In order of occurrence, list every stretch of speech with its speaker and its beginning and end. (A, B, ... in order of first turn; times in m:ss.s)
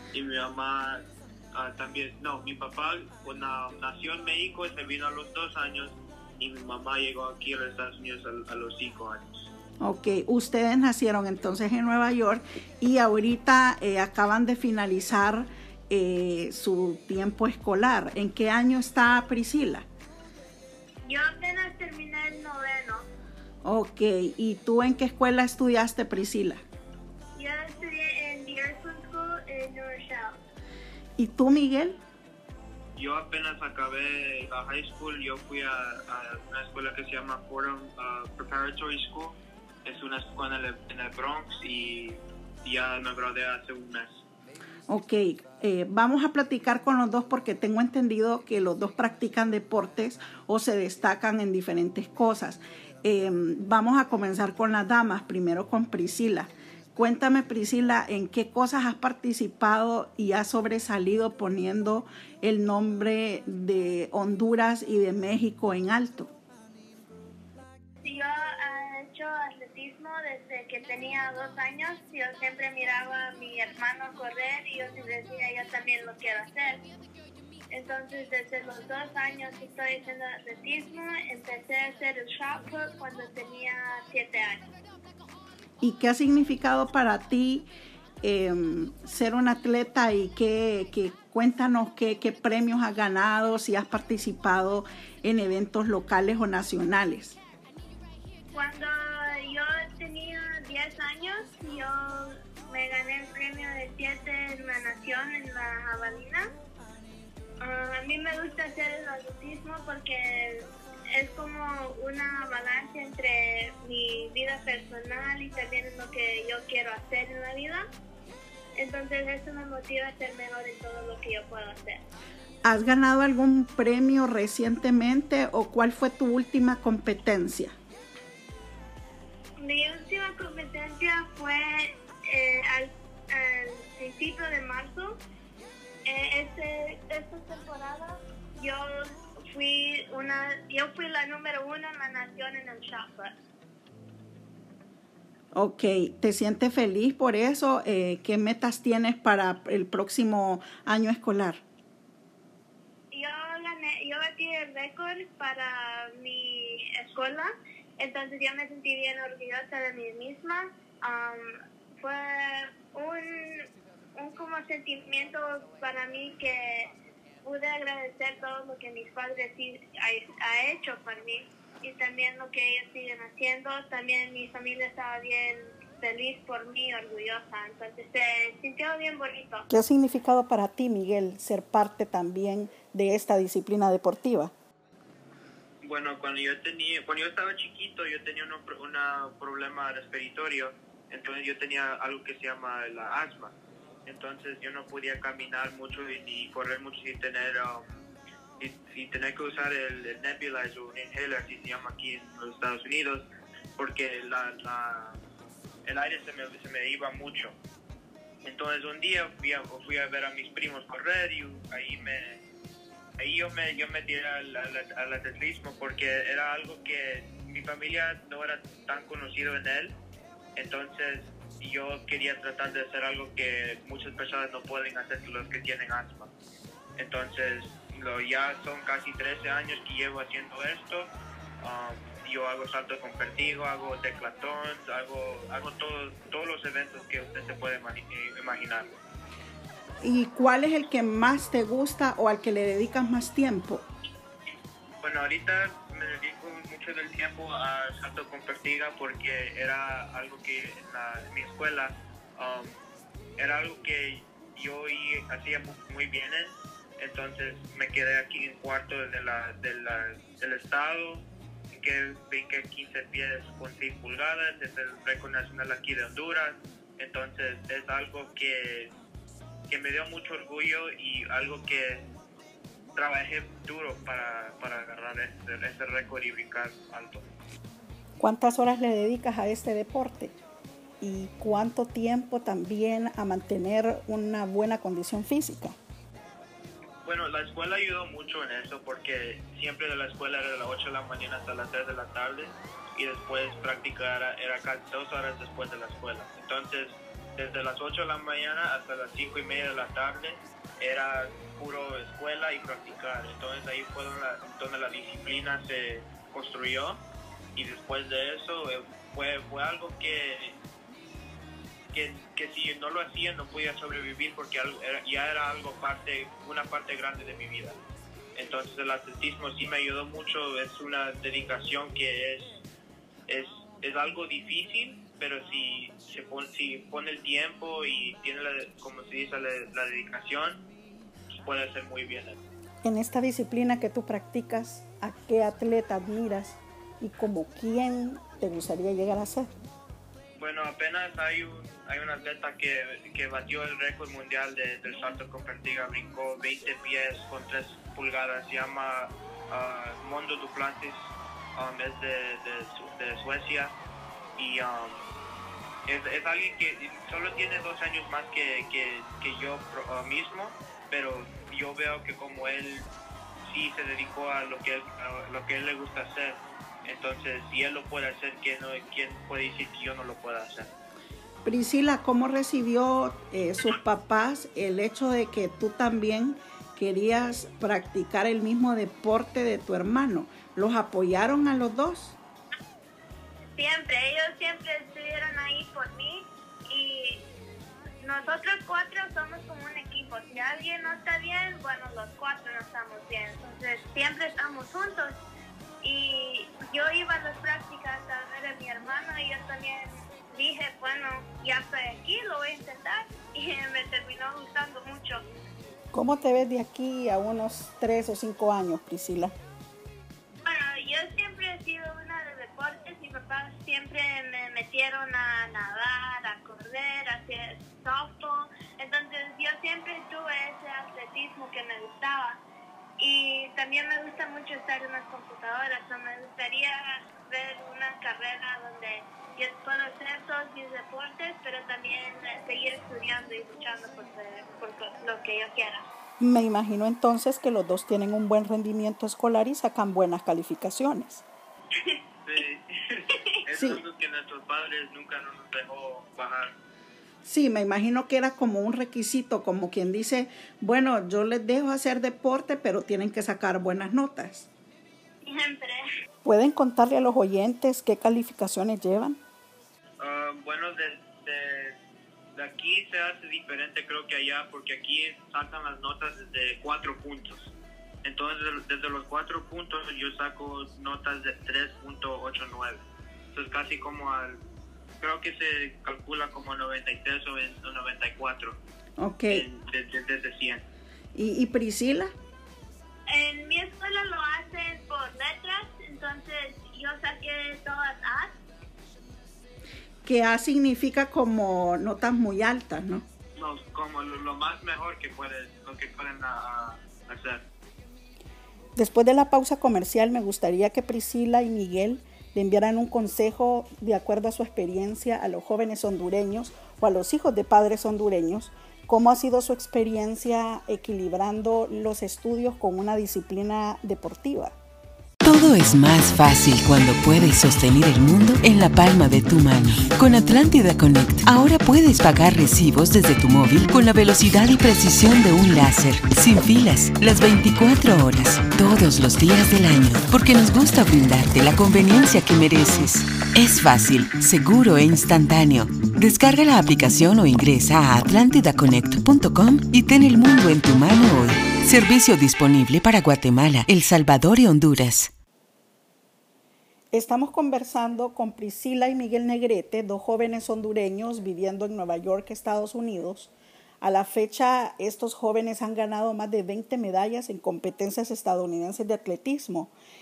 0:00.1-0:09.4 A
0:09.8-0:19.8 B
0:21.0-0:23.1 C
0:23.6-0:26.6 B
0:27.3-0:30.4 C
0:31.2-0:32.0 B
0:33.0-0:44.2 A
0:44.9-1:06.3 B
1:08.0-1:16.8 C
1:17.7-1:24.6 C
1:25.8-1:27.7 B
1:28.2-1:37.4 B
1:38.5-1:46.4 C
1:47.6-1:57.8 C
1:58.8-2:02.0 C
2:02.6-2:07.7 B
2:09.6-2:15.2 C
2:16.0-2:23.3 C
2:25.5-2:31.6 B
2:33.1-2:43.6 C
2:44.2-2:46.9 C
2:47.4-2:59.7 C
2:59.7-3:04.5 B
3:05.8-3:13.5 A
3:14.1-3:17.8 A
3:18.6-3:25.2 A
3:25.8-3:27.6 A
3:28.4-3:32.4 A
3:33.2-3:40.0 A
3:40.6-3:46.3 A
3:47.0-3:59.0 A
4:00.0-4:03.8 B
4:05.0-4:12.7 A
4:13.4-4:28.9 A
4:29.7-4:32.0 A
4:33.0-4:37.2 A
4:38.2-4:40.4 B
4:41.0-4:45.8 B
4:47.0-5:07.0 A
5:07.6-5:10.6 A
5:11.9-5:17.8 A
5:18.3-5:22.6 A
5:23.3-5:30.6 A
5:31.3-5:32.4 A
5:32.8-5:39.5 B
5:40.4-5:53.7 A
5:54.4-5:55.0 A
5:55.8-6:02.8 A
6:03.4-6:10.7 A
6:11.4-6:22.2 B
6:23.5-6:27.2 C
6:28.0-6:35.2 C
6:35.8-6:45.2 C
6:45.9-6:49.3 B
6:50.4-7:02.4 C
7:03.0-7:15.8 C
7:16.2-7:21.2 B
7:22.2-7:26.5 A
7:23.5-7:23.8 B
7:27.2-7:34.5 B
7:35.2-7:35.8 C
7:36.2-7:39.2 B
7:40.0-7:41.8 A
7:42.3-7:47.5 A
7:48.0-7:54.4 A
7:55.0-7:58.6 A
7:59.0-7:59.4 B
7:59.3-8:00.6 A
8:01.1-8:02.1 B
8:03.1-8:08.4 C
8:10.0-8:13.0 B
8:13.4-8:17.4 A
8:18.8-8:34.6 B
8:35.2-9:05.1 D
9:06.9-9:19.7 B